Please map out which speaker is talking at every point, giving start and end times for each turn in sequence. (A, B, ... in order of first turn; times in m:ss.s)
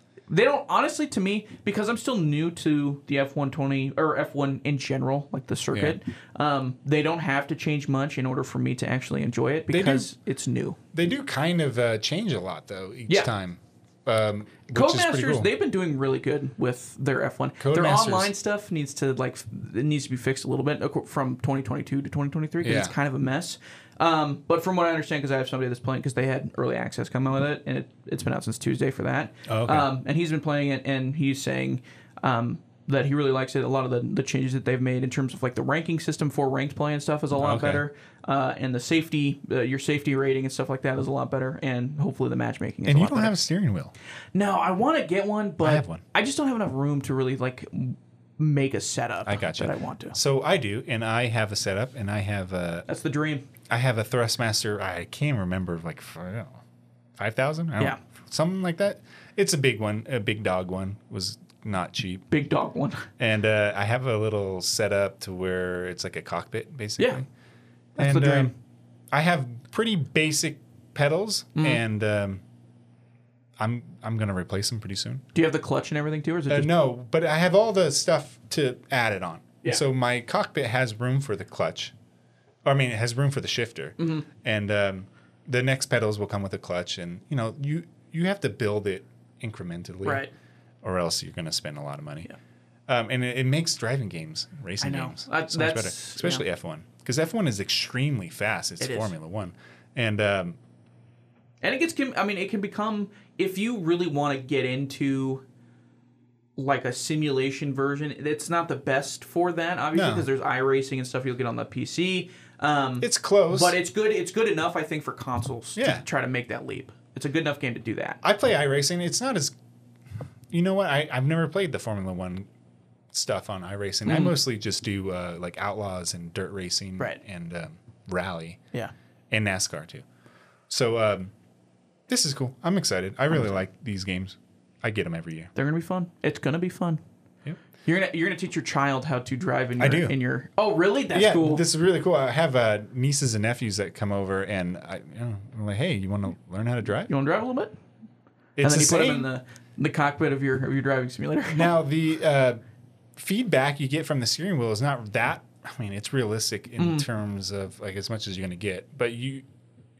0:00.3-0:10.8 A
0:05.7-0:06.0 B
0:09.7-0:10.1 B
0:10.9-0:15.5 B
0:14.7-0:43.4 A
0:17.6-0:18.3 B
0:22.6-0:22.9 B
0:29.5-0:29.9 B
0:37.4-0:37.8 B
0:42.8-0:43.9 B
0:44.4-0:50.2 A
0:45.6-0:46.0 B
0:49.2-0:52.9 B
0:52.9-0:53.5 A
0:53.7-0:56.6 B
0:57.2-1:02.3 B
1:02.3-1:03.1 A
1:03.2-1:07.3 B
1:08.0-1:08.5 A
1:08.0-1:08.5 B
1:09.1-1:12.4 B
1:11.6-1:11.8 A
1:13.6-1:15.2 B
1:15.3-1:16.7 A
1:16.5-1:21.9 B
1:22.6-1:30.3 B
1:24.0-1:24.3 A
1:30.0-1:30.3 A
1:30.8-1:32.3 B
1:32.9-1:40.6 B
1:34.8-1:36.4 A
1:38.8-1:39.1 A
1:41.6-1:45.4 A
1:46.6-1:58.2 A
1:49.9-1:50.3 B
1:53.0-1:53.8 B
1:55.8-1:56.0 B
1:58.2-1:59.5 B
2:00.5-2:02.5 B
2:03.1-2:08.6 B
2:04.1-2:04.4 A
2:09.3-2:10.0 B
2:10.7-2:11.3 B
2:12.1-2:15.5 B
2:15.6-2:17.0 A
2:17.8-2:21.6 A
2:19.8-2:20.2 B
2:21.1-2:27.1 B
2:27.1-2:27.7 A
2:28.6-2:29.3 B
2:28.6-2:31.7 A
2:31.5-2:32.6 B
2:33.2-2:39.4 B
2:36.8-2:37.1 A